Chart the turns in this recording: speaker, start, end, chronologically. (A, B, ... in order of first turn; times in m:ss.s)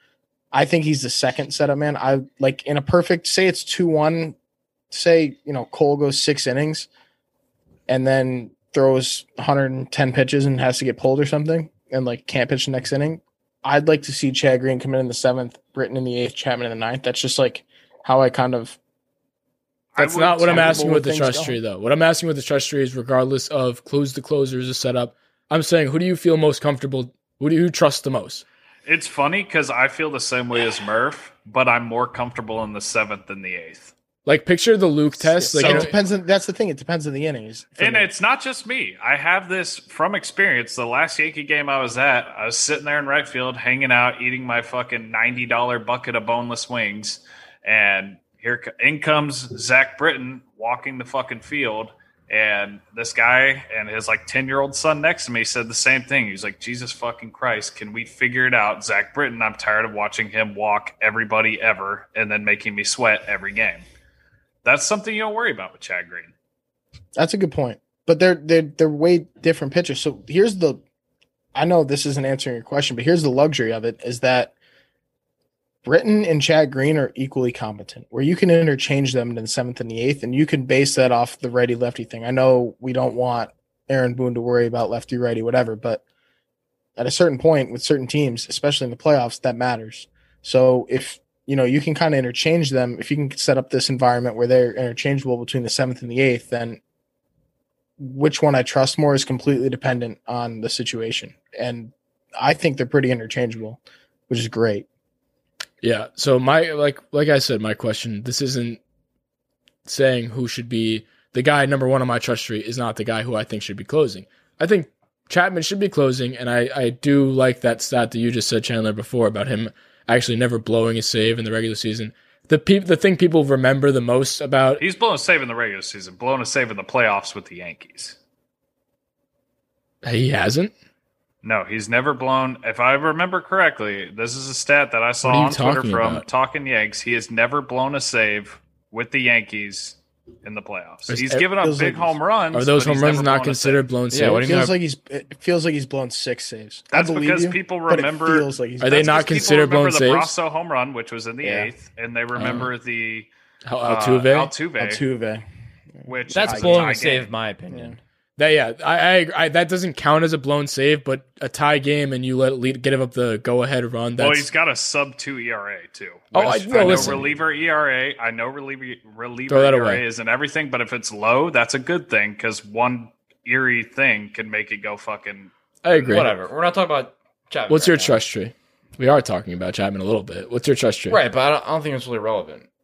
0:00.5-0:04.4 A
0:04.9-0:06.9 A
0:07.9-0:18.8 A
0:20.0-0:20.9 B
0:20.0-0:28.4 C
0:20.5-0:21.6 A
0:28.9-0:33.9 B
0:34.3-0:35.9 C
0:35.2-0:38.1 A
0:37.8-1:03.8 B
1:04.6-1:06.3 B
1:07.2-1:10.8 A
1:11.6-1:14.5 A
1:15.8-1:26.0 A
1:27.0-1:36.8 A
1:38.0-1:44.9 A
1:45.8-1:48.8 C
1:49.9-2:04.8 C
2:04.8-2:08.2 B
2:10.0-2:10.7 C
2:11.4-2:23.8 B
2:15.2-2:16.2 C
2:21.1-2:21.5 C
2:21.6-2:22.2 A
2:22.5-2:24.7 C
2:24.1-2:24.7 D
2:24.4-2:29.4 A
2:26.9-2:33.3 B
2:28.8-2:30.3 C
2:31.4-2:31.7 A
2:32.4-2:32.7 C
2:33.6-2:34.5 C
2:33.8-2:35.0 B
2:34.8-2:35.4 A
2:36.0-2:37.0 A
2:36.1-2:37.3 B
2:36.3-2:38.0 D
2:37.7-2:38.0 A
2:38.4-2:44.5 C
2:44.2-2:55.5 B
2:46.3-2:47.3 C
2:49.5-2:50.0 C
2:55.8-2:56.3 C
2:56.0-2:58.2 D
2:57.7-3:01.2 C
3:01.1-3:02.7 D